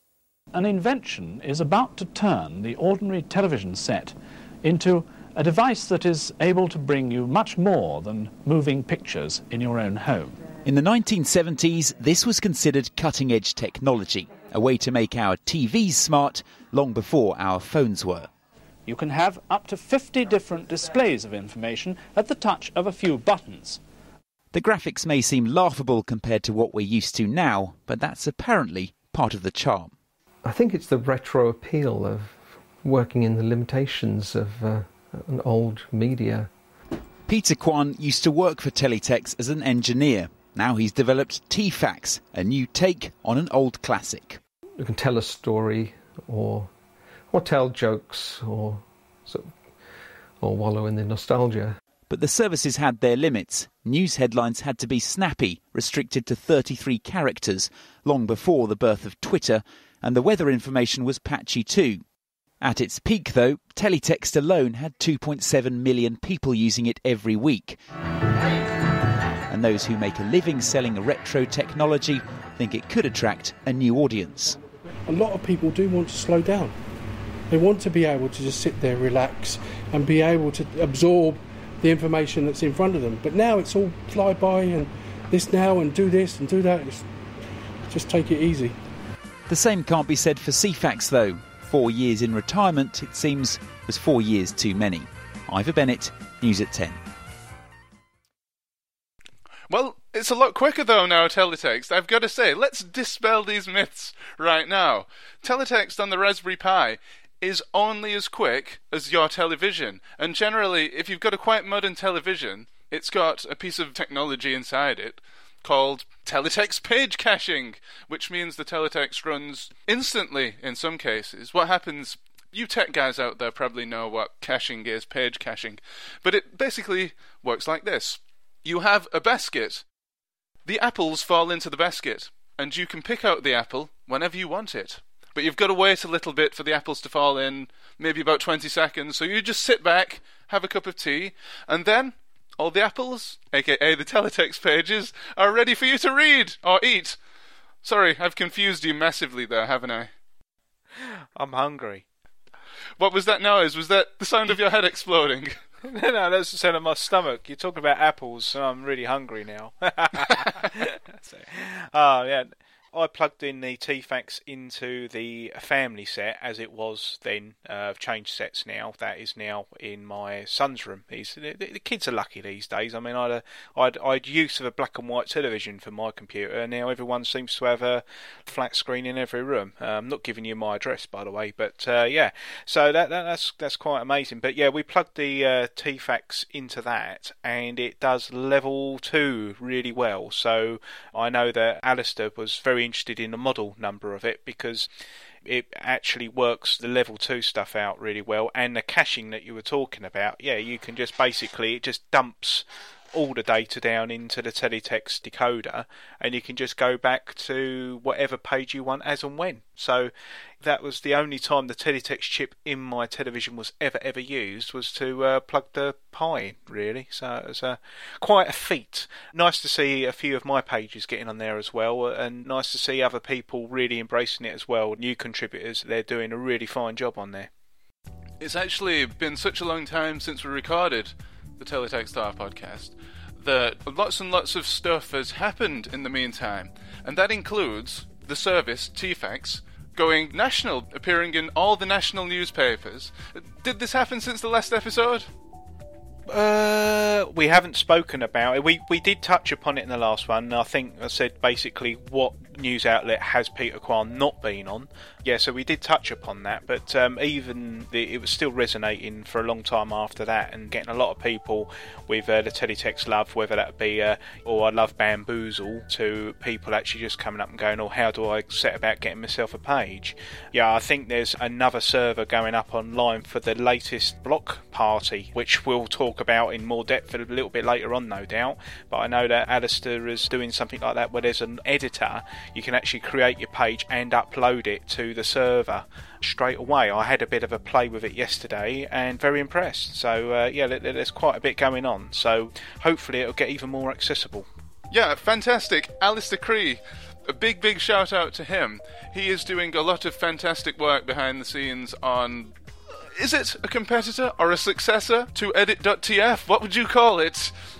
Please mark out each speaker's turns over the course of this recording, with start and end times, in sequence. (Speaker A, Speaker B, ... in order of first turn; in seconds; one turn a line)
Speaker A: 0.5-10.5
Speaker B: 10.7-18.3
Speaker A: 18.9-23.8
Speaker B: 24.5-29.9
Speaker C: 30.5-32.3
Speaker C: 32.9-36.4
Speaker B: 37.3-44.4
Speaker C: 44.8-46.6
Speaker C: 47.3-48.8
Speaker C: 50.4-51.7
Speaker B: 52.1-62.0
Speaker B: 62.6-67.8
Speaker B: 69.5-74.6
Speaker D: 75.1-76.8
Speaker D: 77.5-87.1
Speaker D: 87.9-88.8
Speaker B: 89.5-97.0
Speaker E: 99.7-129.8
Speaker E: 130.7-147.2
Speaker E: 147.8-150.1
Speaker F: 151.0-152.1
Speaker E: 153.0-155.6
Speaker F: 155.8-194.9
Speaker F: 195.4-227.5
Speaker E: 228.4-245.3
Speaker F: 246.3-294.5
Speaker E: 294.9-307.5